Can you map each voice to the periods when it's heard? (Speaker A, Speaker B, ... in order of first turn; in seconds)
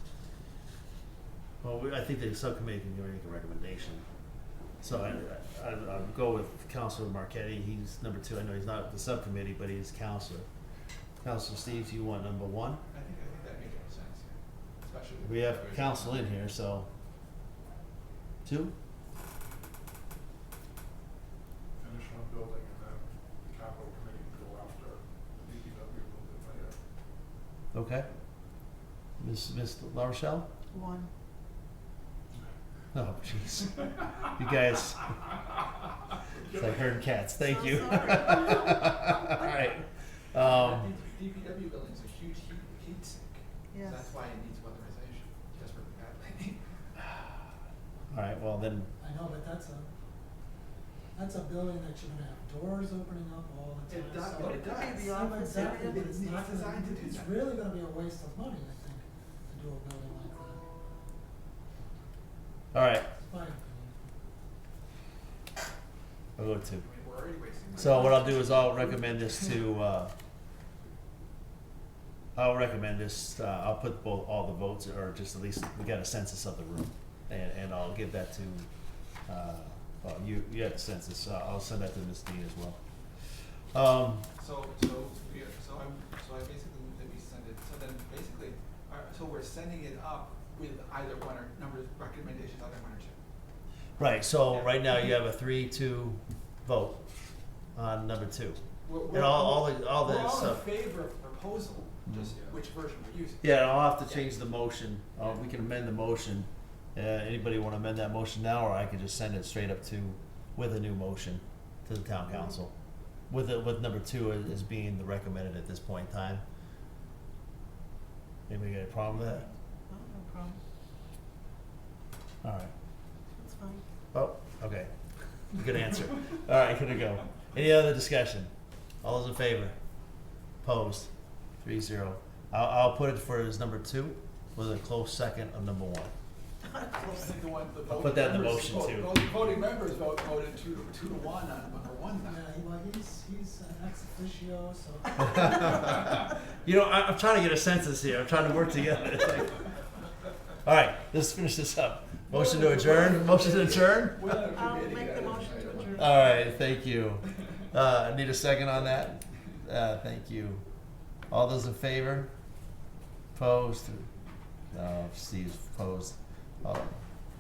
Speaker A: 1.6-4.0, 4.8-10.5, 11.2-12.8, 15.2-16.9, 18.4-18.7, 27.7-28.1, 29.2-30.5, 32.9-35.1, 36.5-40.9, 48.1-48.9, 62.7-63.1, 66.4-66.9, 67.8-70.1, 72.3-78.7, 79.3-82.8, 83.7-84.3, 94.0-97.0, 97.8-100.7, 102.1-102.3, 103.4-112.7, 113.3-116.4, 118.5-119.5, 122.4-122.7, 124.1-124.9, 125.5-128.5, 129.0-129.8, 130.6-131.1, 131.6-136.1, 137.9-139.2, 145.2-149.7, 150.6-154.4, 155.9-160.7, 161.3-162.3, 163.3-164.1, 164.7-167.0
Speaker B: 12.9-16.4, 36.3-37.0, 40.3-47.0, 53.9-57.4, 66.7-69.6, 84.4-93.2, 94.5-94.7, 98.8-103.4, 104.0-104.3, 137.1-142.4, 152.3-156.3
Speaker C: 21.8-26.8
Speaker D: 30.7-31.1, 37.4-39.7, 43.7-44.1, 54.4-56.1, 119.2-120.6, 123.4-123.8, 136.7-137.4, 154.5-156.5
Speaker E: 49.0-49.9, 51.1-60.6, 63.1-64.1, 142.2-146.0